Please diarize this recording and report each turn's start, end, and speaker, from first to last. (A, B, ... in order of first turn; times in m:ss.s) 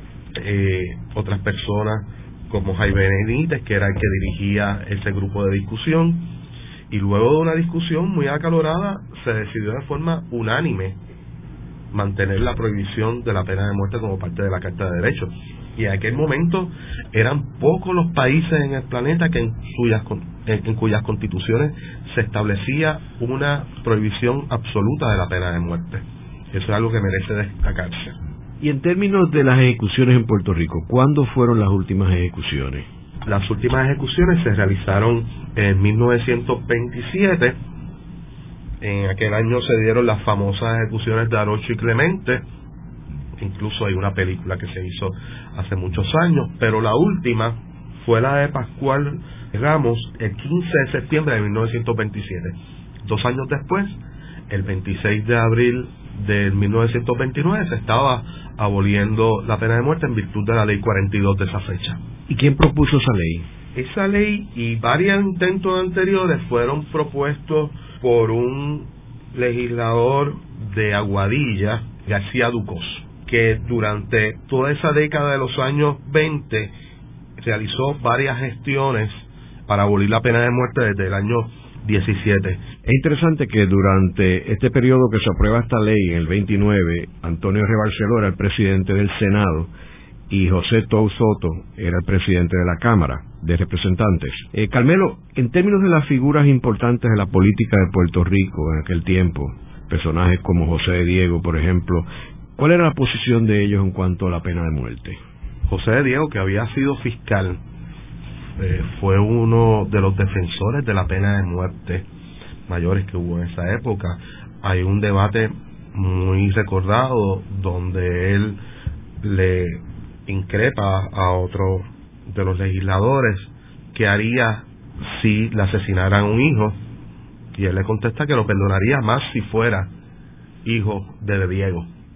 0:00.4-0:06.3 A
0:06.9-0:11.0 A
0:11.9-0:28.2 A
0:28.6-0:32.8 B
0:33.3-0:37.6 A
0:38.8-0:42.4 A
0:43.4-0:53.9 A
0:54.5-1:02.0 A
1:02.3-1:03.4 B
1:03.8-1:16.7 A
1:17.4-1:22.6 A
1:22.8-1:29.7 B
1:30.3-1:45.2 B
1:45.7-1:47.6 A
1:48.6-1:52.0 A
1:52.7-1:58.6 A
1:59.2-2:06.8 A
2:07.6-2:09.9 A
2:10.6-2:11.9 A